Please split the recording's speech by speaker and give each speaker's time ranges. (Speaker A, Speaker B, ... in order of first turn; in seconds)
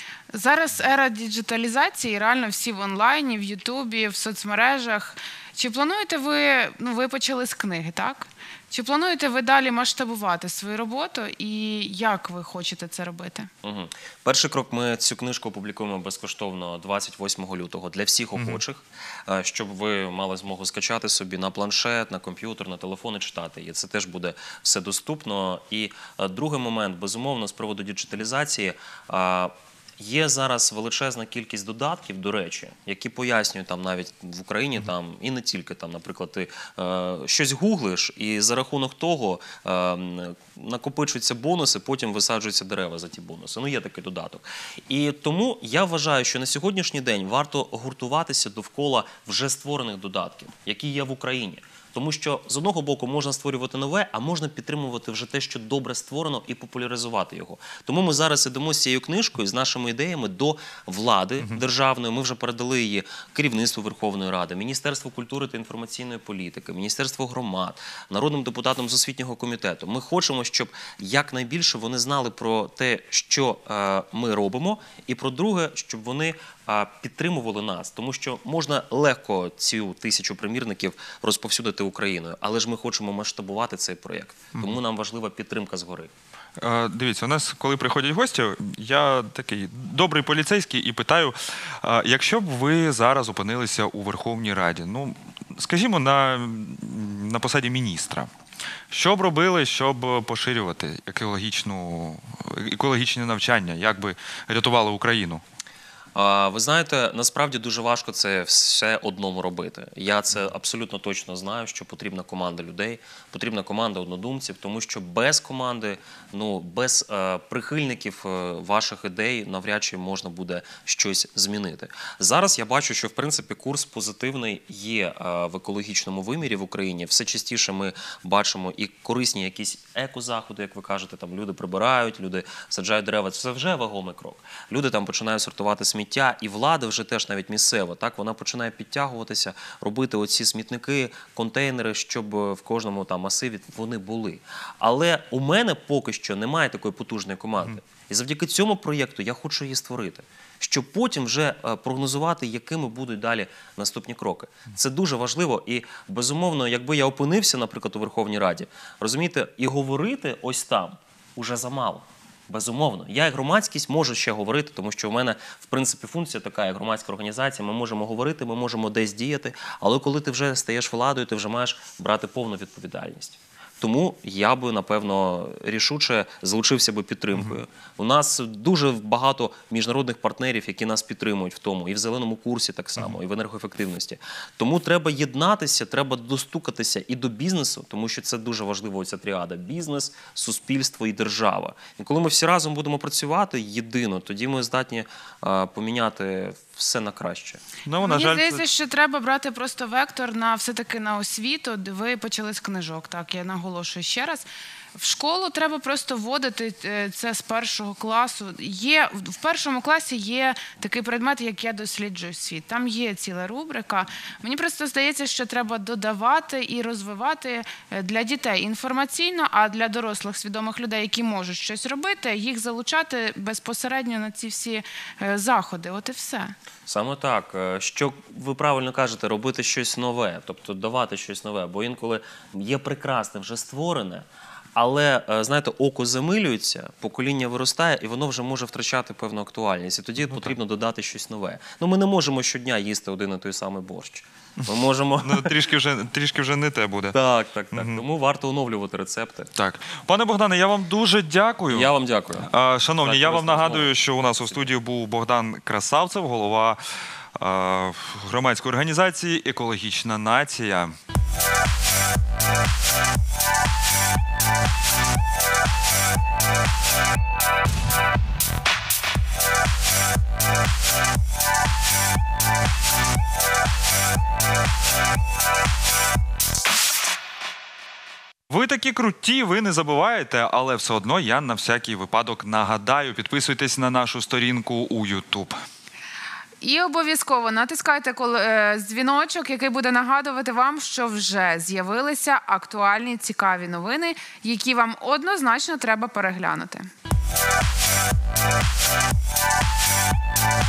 Speaker A: 0.3-13.5, 198.0-226.5, 286.6-296.9
Speaker B: 13.6-86.1, 106.1-197.6, 226.9-245.5, 247.1-249.5, 251.7-253.9
Speaker C: 18.4-18.6, 86.6-98.3, 98.9-105.4, 177.3-177.6, 197.8-198.6, 244.6-247.2, 247.7-248.0, 249.5-251.9, 252.4-256.8, 257.4-260.9, 278.5-285.5